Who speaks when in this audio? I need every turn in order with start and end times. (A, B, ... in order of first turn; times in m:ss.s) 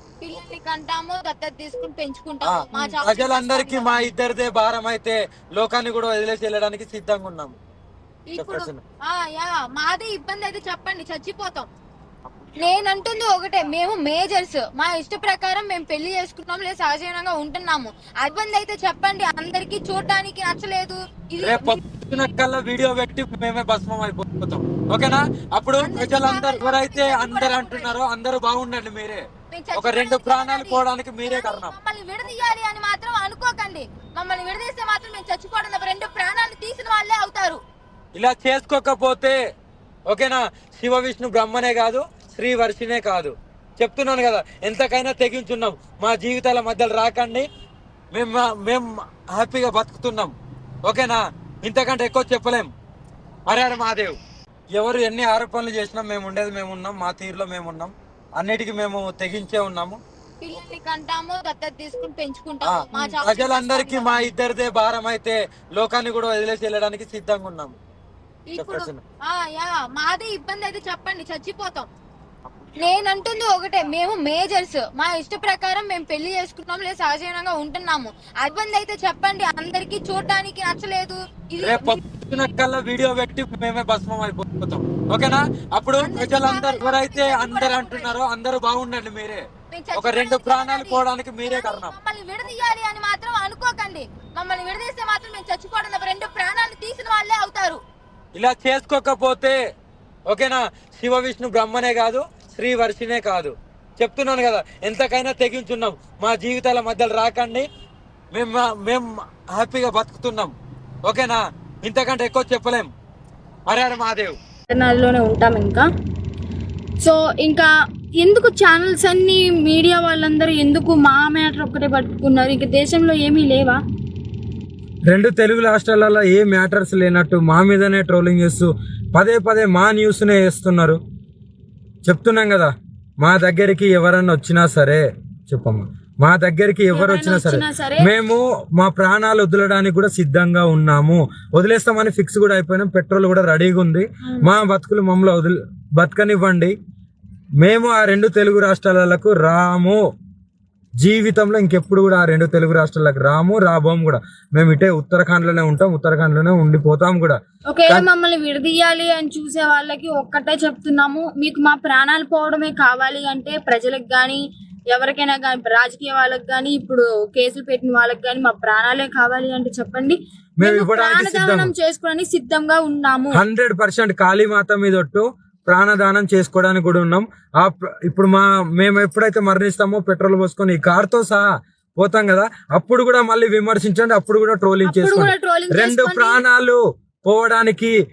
0:00.2-0:04.0 A
0:02.4-0:07.6 B
0:08.3-0:11.7 A
0:08.4-0:08.8 B
0:12.6-0:21.8 A
0:21.4-0:31.7 B
0:25.8-0:27.9 A
0:29.5-0:37.6 A
0:38.2-0:39.4 B
0:40.1-0:47.4 B
0:48.1-0:50.3 B
0:50.8-0:52.7 B
0:53.5-0:54.2 B
0:54.7-1:00.0 B
1:00.4-1:04.3 A
1:02.6-1:07.8 B
1:08.5-1:11.9 A
1:08.6-1:09.0 B
1:12.8-1:22.0 A
1:21.6-1:31.9 B
1:26.0-1:28.2 A
1:29.7-1:37.8 A
1:38.3-1:39.6 B
1:40.3-1:47.7 B
1:48.3-1:50.5 B
1:51.0-1:52.9 B
1:53.7-1:54.4 B
1:54.7-1:55.8 C
1:57.0-1:57.7 C
1:58.2-2:03.8 C
2:05.1-2:11.0 B
2:12.0-2:26.7 B
2:16.9-2:18.1 C
2:27.6-2:30.0 B
2:31.0-2:38.0 B
2:37.7-2:53.4 C
2:50.6-2:51.7 B
2:53.3-3:01.5 B
3:02.0-3:07.9 B
3:04.8-3:06.4 C